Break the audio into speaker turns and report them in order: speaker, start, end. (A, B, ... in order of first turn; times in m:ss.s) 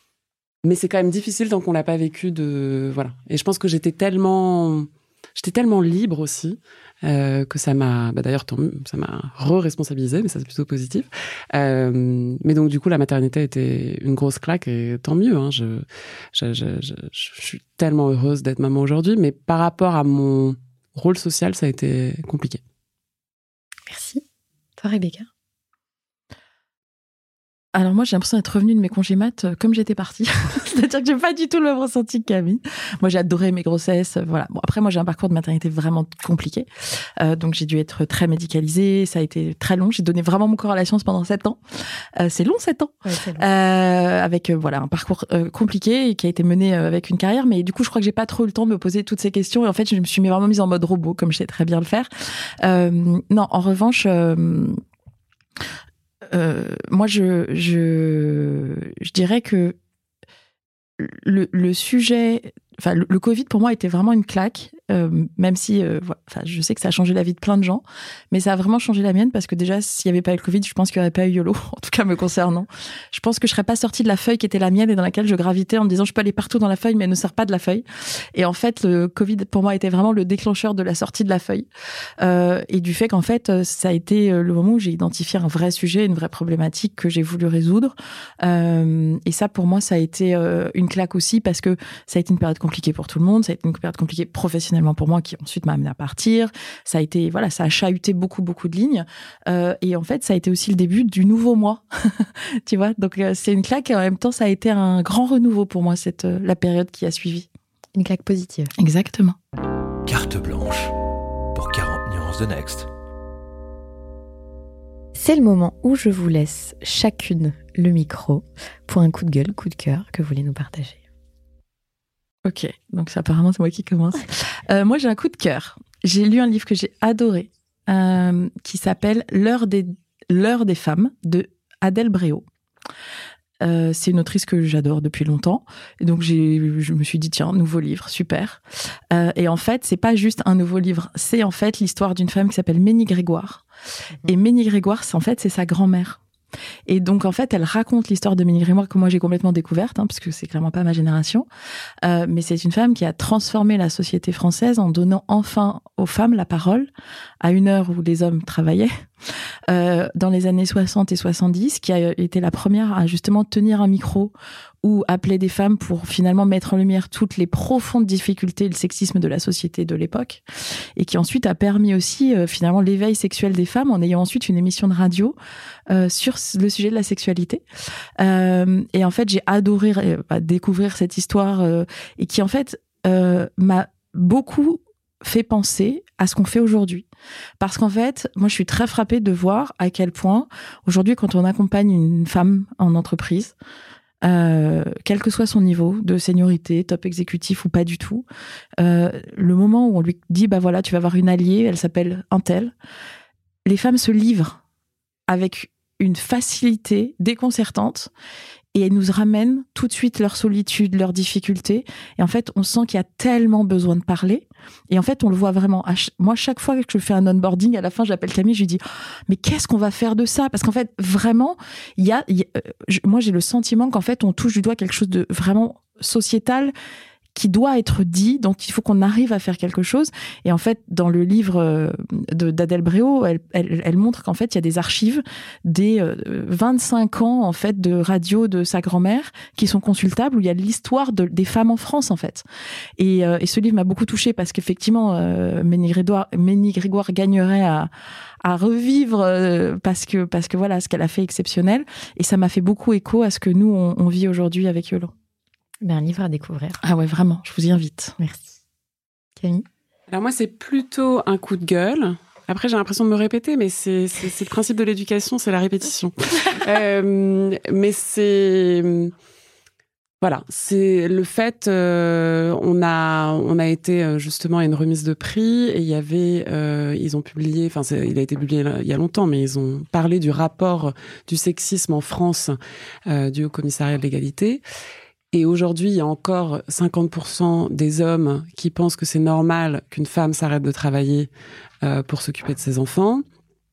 0:00.6-0:22.6 A
0:23.9-0:24.2 B
0:24.8-0:25.3 B
0:27.7-0:54.8 C
0:43.0-0:43.5 B
0:56.3-0:59.8 C
1:01.0-1:21.7 C
1:22.2-1:47.5 C
1:47.9-1:48.7 B
1:48.8-1:49.4 C
1:50.0-1:50.9 D
1:51.5-1:52.9 D
1:55.1-2:01.0 B
2:02.4-2:12.4 C
2:13.6-2:23.6 C
2:24.2-2:26.2 C
2:26.9-2:31.4 C
2:32.0-2:36.9 C
2:37.4-2:55.3 C
2:55.9-2:57.6 C
2:58.2-3:07.0 C
3:07.6-3:13.5 C
3:14.2-3:18.2 C
3:18.8-3:22.7 C
3:23.6-3:24.6 C
3:25.3-3:28.1 C
3:28.7-3:46.7 C
3:47.3-4:02.4 C
4:03.0-4:15.1 C
4:15.8-4:16.8 B
4:16.8-4:18.2 C
4:18.2-4:18.5 B
4:19.4-4:19.6 B
4:20.1-4:29.1 A
4:30.2-4:44.6 A
4:45.3-4:51.3 A
4:51.8-4:53.2 A